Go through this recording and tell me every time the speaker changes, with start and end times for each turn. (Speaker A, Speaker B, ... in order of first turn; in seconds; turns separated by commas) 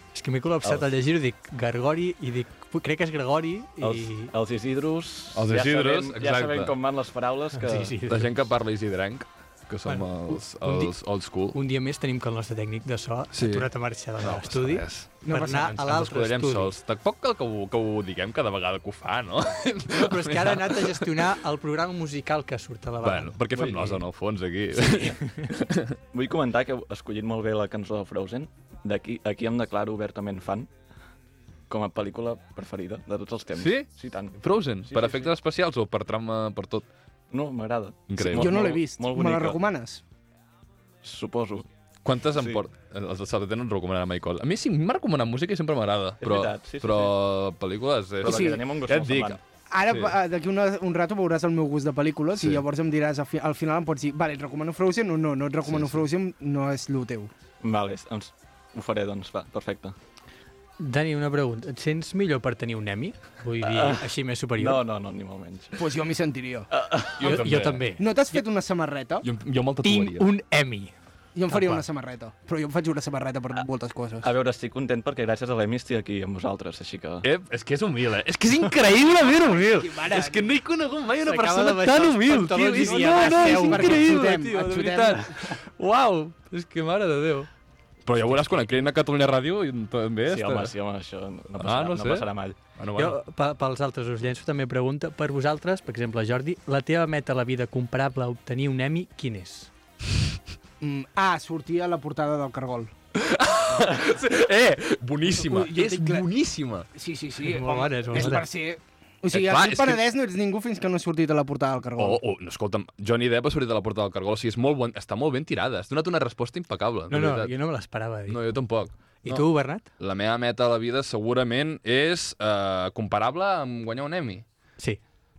Speaker A: 0.1-4.3, Speaker B: 3.8-8.0, Speaker C: 5.3-6.7, Speaker A: 7.6-8.3, Speaker C: 8.1-11.6, Speaker A: 9.8-10.9, Speaker A: 11.5-16.7, Speaker C: 13.3-21.0, Speaker D: 15.2-15.8, Speaker A: 19.9-24.0, Speaker C: 23.0-25.9, Speaker A: 24.8-25.5, Speaker B: 26.1-30.7, Speaker B: 31.7-35.3, Speaker C: 33.5-36.9, Speaker B: 37.3-39.6, Speaker C: 38.1-38.6, Speaker D: 38.2-40.0, Speaker B: 41.0-41.7, Speaker C: 42.0-49.4, Speaker B: 42.3-42.6, Speaker B: 46.2-47.1, Speaker B: 48.2-49.4, Speaker D: 48.2-48.6, Speaker D: 49.7-57.3, Speaker C: 52.4-52.6, Speaker B: 57.6-60.0, Speaker A: 60.8-64.8, Speaker B: 63.6-64.0, Speaker B: 64.5-65.9, Speaker D: 65.8-66.7, Speaker B: 66.7-67.4, Speaker C: 67.2-67.8, Speaker A: 67.2-68.4, Speaker D: 68.0-69.3, Speaker C: 69.2-70.3, Speaker A: 69.8-70.9, Speaker D: 71.3-74.3, Speaker A: 71.5-71.8, Speaker B: 74.2-77.2, Speaker C: 77.2-87.5, Speaker D: 79.7-80.5, Speaker A: 81.2-84.3, Speaker D: 82.8-85.4, Speaker C: 88.0-90.7, Speaker A: 88.2-88.8, Speaker B: 90.2-92.5, Speaker C: 91.6-93.2, Speaker A: 93.0-99.7, Speaker D: 100.8-102.9, Speaker C: 103.2-106.9, Speaker D: 105.3-106.3, Speaker D: 106.9-112.2, Speaker A: 107.4-108.5, Speaker C: 109.3-110.0, Speaker C: 112.0-117.5, Speaker A: 117.1-118.4, Speaker C: 118.2-119.5, Speaker A: 119.2-119.8, Speaker C: 120.0-124.4